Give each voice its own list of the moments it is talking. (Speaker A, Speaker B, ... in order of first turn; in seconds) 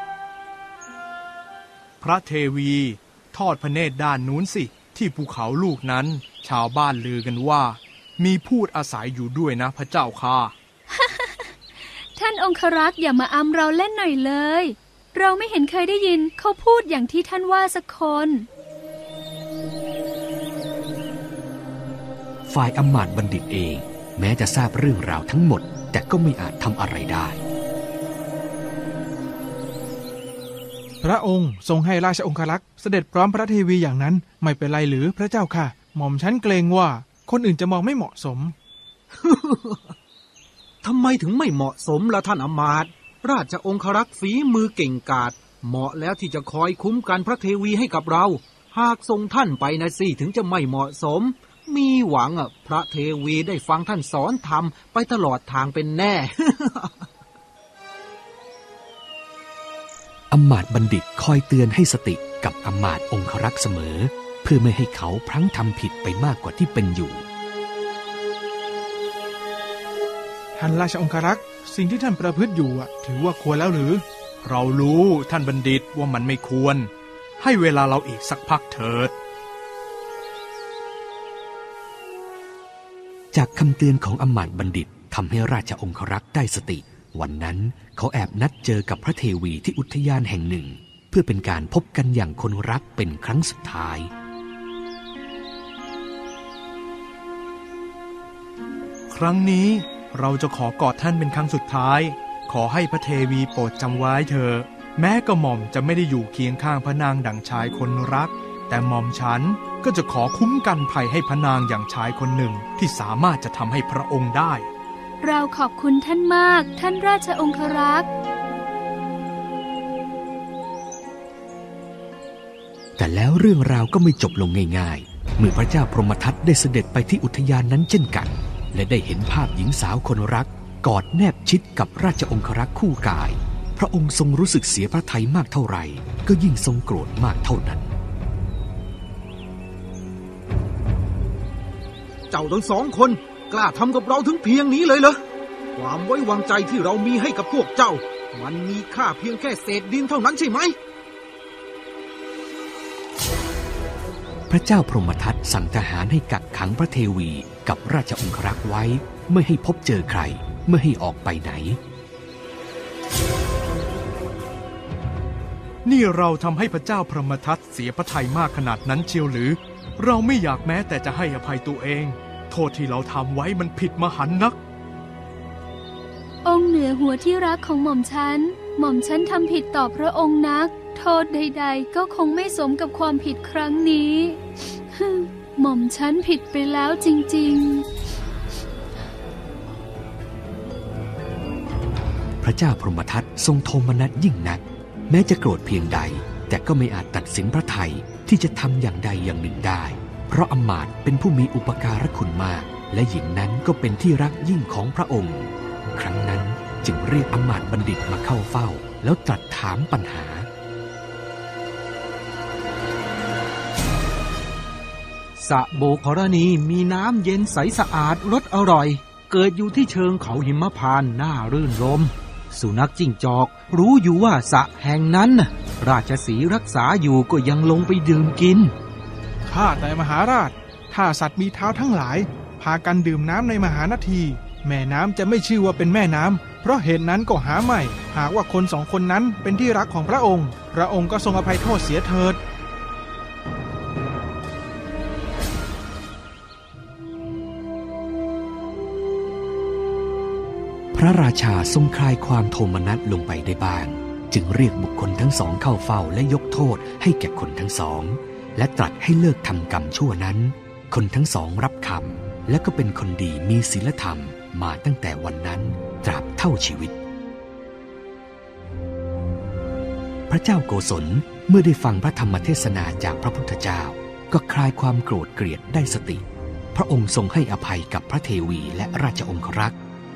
Speaker A: 2.0-10.5, 74.4-79.1, 99.1-114.7, 165.8-174.6
Speaker B: 10.9-18.5, 115.2-118.1, 176.4-187.9
Speaker C: 22.5-27.4, 60.3-67.2, 83.3-94.1, 123.0-137.9, 154.5-161.8, 192.4-210.5, 250.9-267.0, 270.3-279.8
Speaker D: 31.0-38.5, 70.6-74.0, 229.5-242.4
Speaker E: 39.2-39.9, 40.8-57.0, 142.3-145.2, 145.8-150.8, 215.4-228.7